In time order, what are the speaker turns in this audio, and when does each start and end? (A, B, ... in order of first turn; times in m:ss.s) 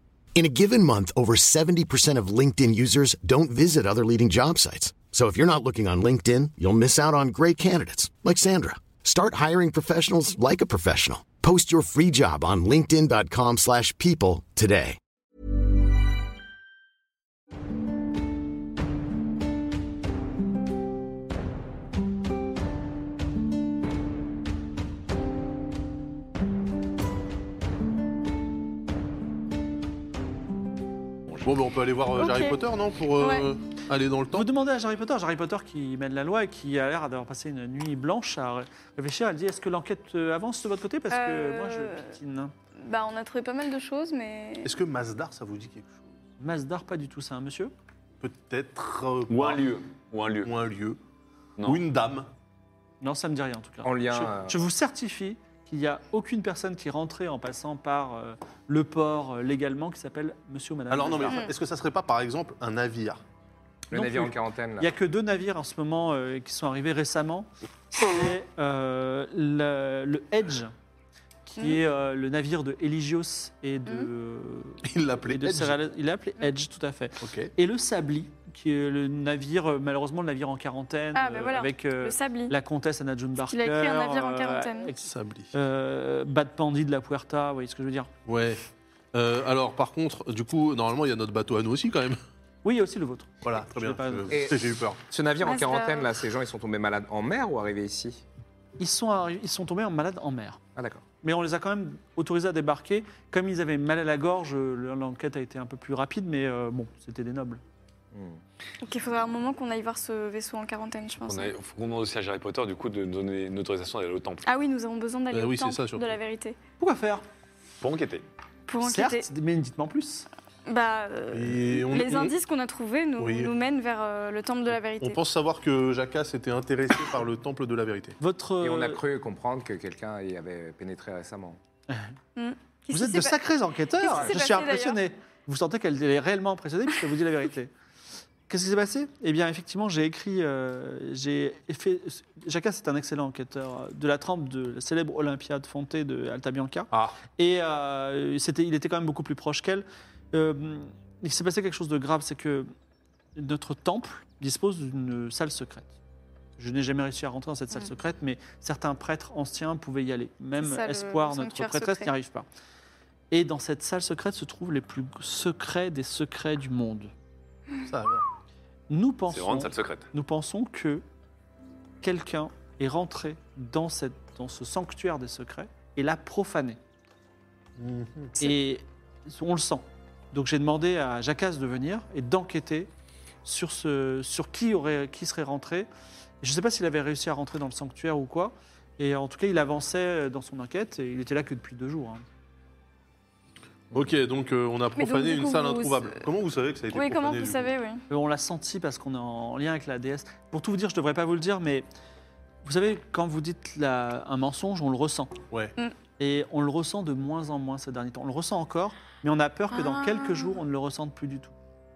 0:00.3-0:15.0 A
0:31.4-0:34.5 B
0:32.2-0:32.6 C
0:33.2-0:33.5 C
0:34.3-0:42.5 D
0:41.1-0:42.1 C
0:42.8-0:44.7 C
0:44.6-0:46.1 B
0:46.4-0:47.7 D
0:48.2-0:49.6 B
0:49.3-0:50.5 E
0:50.4-0:51.0 B
0:51.6-0:51.8 E
0:51.6-0:52.3 B
0:53.0-1:01.5 D
0:53.8-0:54.6 F
1:00.9-1:03.2 B
1:01.2-1:01.5 C
1:03.9-1:05.0 F
1:03.9-1:10.7 D
1:11.5-1:28.1 D
1:14.8-1:15.8 B
1:17.2-1:17.5 B
1:21.1-1:22.5 C
1:23.5-1:24.9 C
1:25.0-1:25.5 B
1:28.2-1:32.2 B
1:32.6-1:34.5 D
1:33.4-1:35.0 B
1:34.3-1:38.2 F
1:35.4-1:36.1 C
1:38.8-1:40.6 D
1:40.8-1:41.0 F
1:41.2-1:47.6 D
1:48.1-1:48.4 F
1:48.8-1:51.5 C
1:51.3-1:54.4 E
1:54.4-1:56.6 C
1:55.3-1:56.1 B
1:56.8-1:57.2 D
1:57.8-1:58.2 E
1:58.7-1:59.2 C
1:58.8-2:00.3 D
2:00.6-2:05.2 C
2:01.3-2:02.4 B
2:03.2-2:03.5 B
2:05.0-2:08.2 B
2:08.2-2:09.0 D
2:08.6-2:11.6 F
2:12.4-2:13.4 C
2:12.9-2:17.7 D
2:14.0-2:15.0 C
2:18.5-2:32.7 D
2:26.9-2:27.2 B
2:33.3-2:35.9 D
2:36.6-2:42.5 D
2:40.6-2:42.1 C
2:43.3-2:47.1 D
2:47.8-2:48.2 B
2:48.9-2:51.0 D
2:49.3-2:50.1 E
2:52.0-2:56.8 D
2:57.8-2:58.4 B
2:58.4-3:02.9 D
3:03.4-3:05.9 D
3:06.4-3:12.2 D
3:13.9-3:17.7 B
3:15.0-3:16.2 C
3:16.9-3:18.0 C
3:18.1-3:21.8 D
3:22.6-3:25.4 D
3:26.2-3:31.5 D
3:29.7-3:30.6 C